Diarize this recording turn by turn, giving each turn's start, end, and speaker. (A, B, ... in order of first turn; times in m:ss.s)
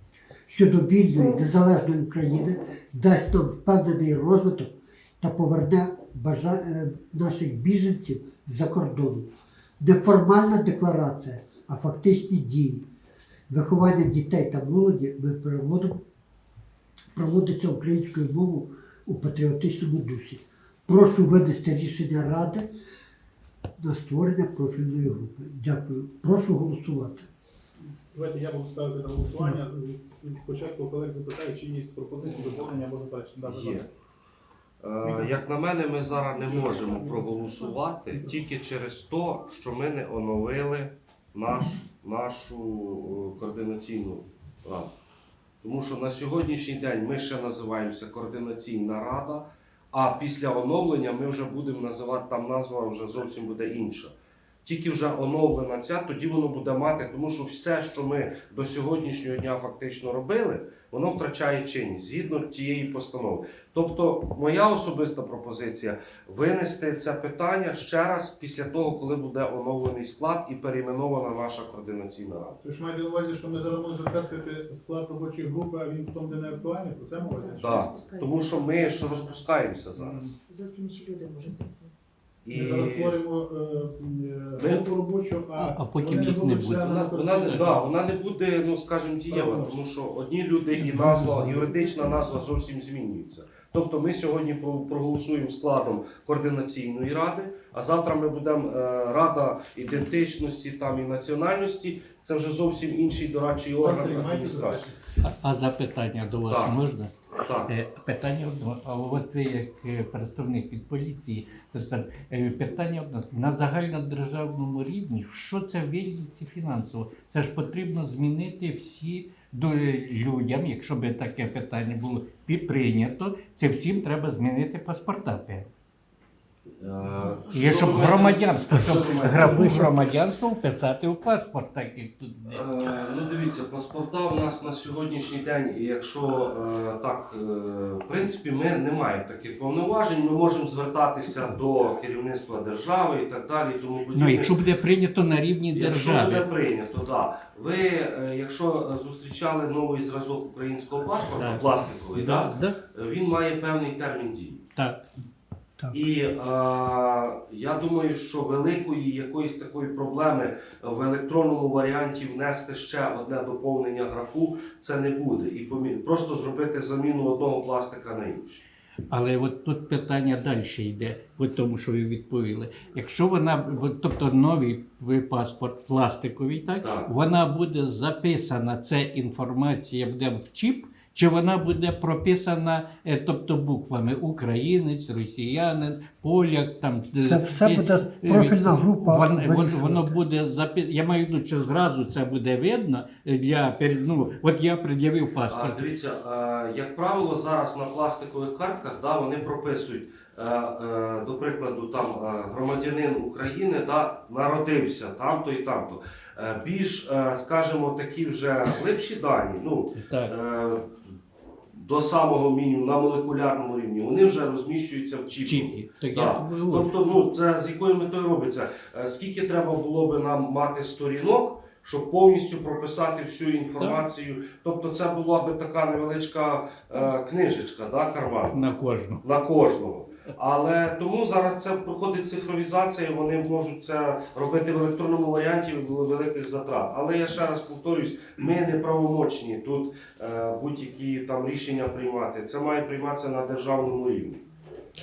0:00.5-0:12.8 A
0:13.5-0:16.0 A
0:17.1-0:22.7 A
0:23.8-0:27.3 A
0:27.9-0:33.8 B
0:33.4-0:33.8 C
0:34.8-0:44.9 C
0:35.0-0:35.4 B
0:36.4-0:37.4 B
0:45.6-0:54.1 C
0:54.6-1:12.6 C
1:12.6-1:17.8 B
1:17.1-1:19.5 D
1:17.6-1:20.4 C
1:20.0-1:20.3 B
1:20.5-1:21.9 D
1:22.4-1:23.1 C
1:22.5-1:27.9 B
1:24.6-1:24.8 C
1:25.7-1:26.9 E
1:26.8-1:44.8 C
1:29.3-1:29.8 B
1:30.9-1:31.7 B
1:43.8-1:45.0 B
1:45.2-1:47.1 E
1:46.5-1:46.8 C
1:47.4-1:47.7 C
1:47.6-2:05.7 E
2:06.8-2:09.9 C
2:07.1-2:07.5 B
2:07.5-2:12.6 E
2:09.6-2:09.9 A
2:12.5-2:24.6 C
2:24.1-2:26.4 E
2:25.7-2:34.6 C
2:31.4-2:32.8 E
2:34.8-2:35.0 E
2:35.9-2:48.6 C
2:49.1-3:15.8 E
2:56.8-2:57.1 C
3:07.2-3:10.2 A
3:15.5-3:30.9 C
3:30.0-3:30.4 E
3:31.7-3:48.6 C
3:35.4-3:36.9 E
3:48.5-3:49.2 E
3:49.2-4:04.4 C